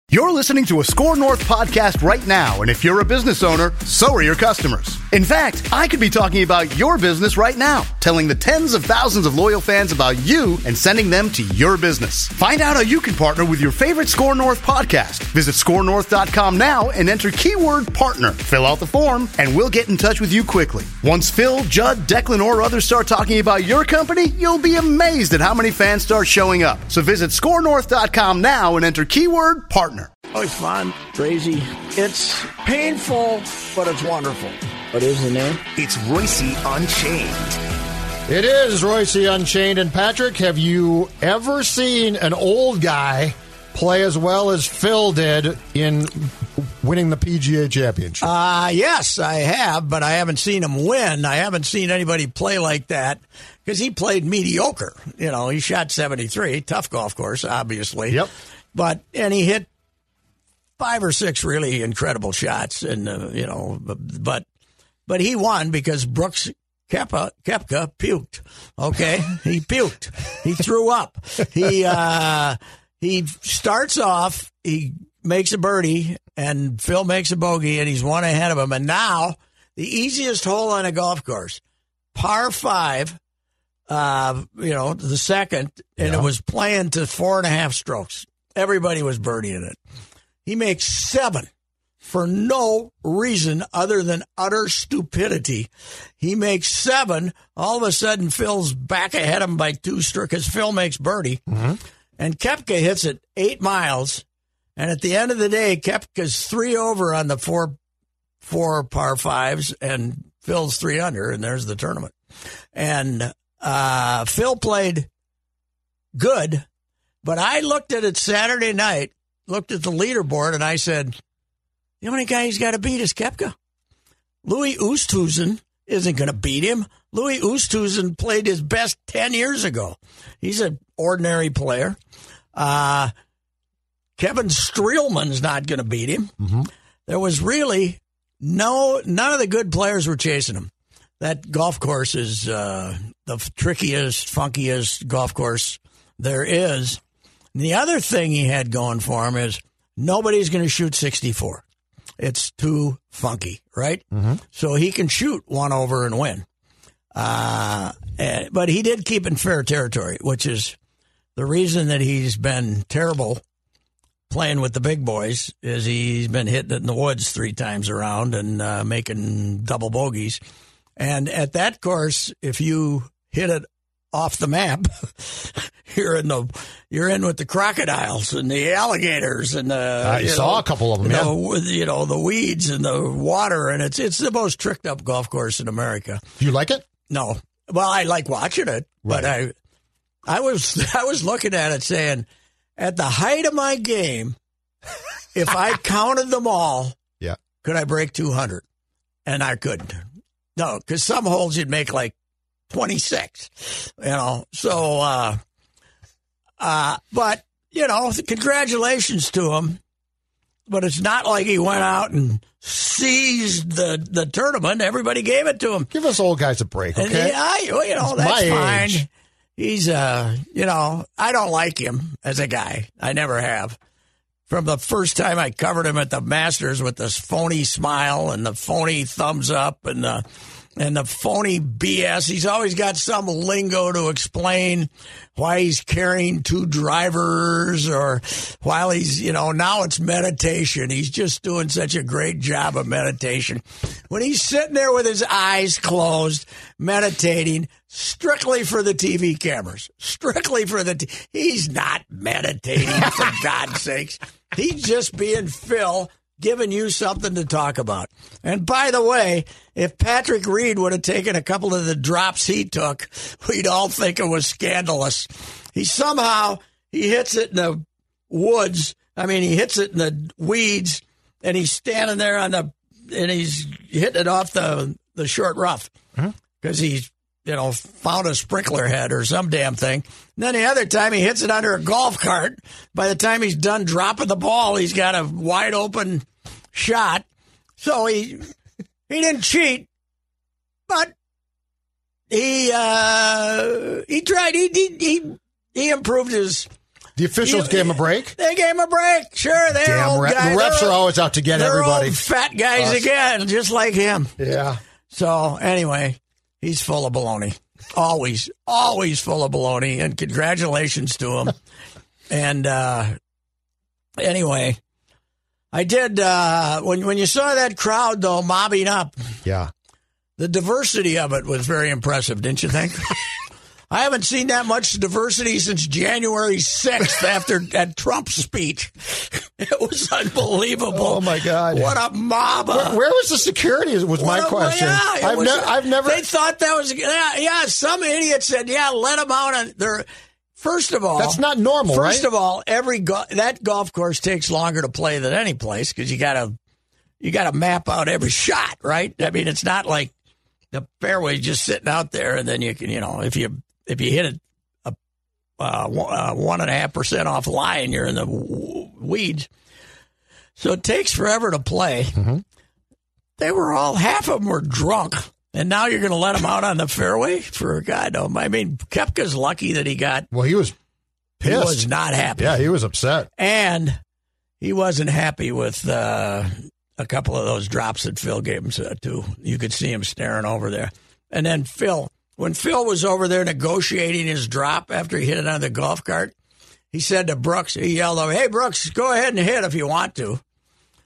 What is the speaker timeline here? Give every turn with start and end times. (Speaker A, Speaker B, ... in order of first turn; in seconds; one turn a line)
Speaker A: 0.1-30.1
Speaker B: 30.3-35.8
Speaker A: 36.0-36.4
Speaker C: 38.3-48.2
Speaker B: 48.2-59.7
Speaker B: 60.8-64.5
Speaker B: 65.1-81.6
Speaker B: 82.1-83.2
Speaker B: 83.9-89.8
Speaker C: 86.0-86.3
Speaker B: 90.5-91.5
Speaker B: 92.0-101.4
Speaker C: 101.5-101.8
Speaker B: 102.2-104.2
Speaker B: 104.8-107.8
Speaker B: 108.4-112.1
Speaker B: 112.8-115.1
Speaker B: 116.2-116.7
Speaker B: 117.2-121.2
Speaker B: 122.0-123.5
Speaker B: 124.5-132.0
Speaker B: 132.6-133.1
Speaker B: 134.2-136.3
Speaker C: 136.4-136.7
Speaker B: 137.1-147.0
Speaker B: 147.6-151.6
Speaker B: 152.2-156.4
Speaker C: 154.1-154.4
Speaker B: 157.1-160.8
Speaker B: 161.4-163.4
Speaker B: 164.3-170.4
Speaker B: 171.0-186.2
Speaker C: 180.0-181.3
Speaker C: 186.4-186.8
Speaker B: 187.1-189.5
Speaker C: 189.1-189.3
Speaker B: 190.3-192.3
Speaker B: 192.8-194.4
Speaker B: 195.3-197.0
Speaker B: 197.6-198.6
Speaker B: 199.3-200.0
Speaker B: 200.6-202.2
Speaker B: 202.7-205.4
Speaker B: 206.6-209.8
Speaker B: 210.7-215.9
Speaker C: 215.9-217.4
Speaker B: 217.0-223.8
Speaker C: 218.0-219.0
Speaker B: 224.5-230.2
Speaker B: 230.8-275.9
Speaker B: 276.6-287.2
Speaker B: 287.8-288.4
Speaker B: 289.1-289.9
Speaker B: 290.9-291.1
Speaker B: 292.3-296.7
Speaker C: 297.2-298.4
Speaker B: 297.4-301.0
Speaker C: 299.8-302.2
Speaker B: 301.5-304.3
Speaker C: 302.8-303.1
Speaker C: 304.4-304.8
Speaker B: 305.1-311.6
Speaker B: 312.3-313.2
Speaker B: 314.2-314.8
Speaker B: 315.7-319.1
Speaker C: 319.4-319.7
Speaker B: 320.4-323.2
Speaker B: 323.9-333.0
Speaker C: 330.9-331.9
Speaker C: 332.7-336.2
Speaker B: 334.2-340.1
Speaker B: 340.6-346.5
Speaker C: 341.2-342.3
Speaker B: 347.2-350.1
Speaker B: 350.7-355.0
Speaker B: 355.6-359.5
Speaker B: 360.6-362.2
Speaker C: 362.2-362.4
Speaker B: 363.4-370.3
Speaker C: 370.3-370.8
Speaker B: 371.4-372.6
Speaker C: 371.4-373.3
Speaker B: 373.4-374.0
Speaker B: 374.6-386.3
Speaker B: 386.9-390.4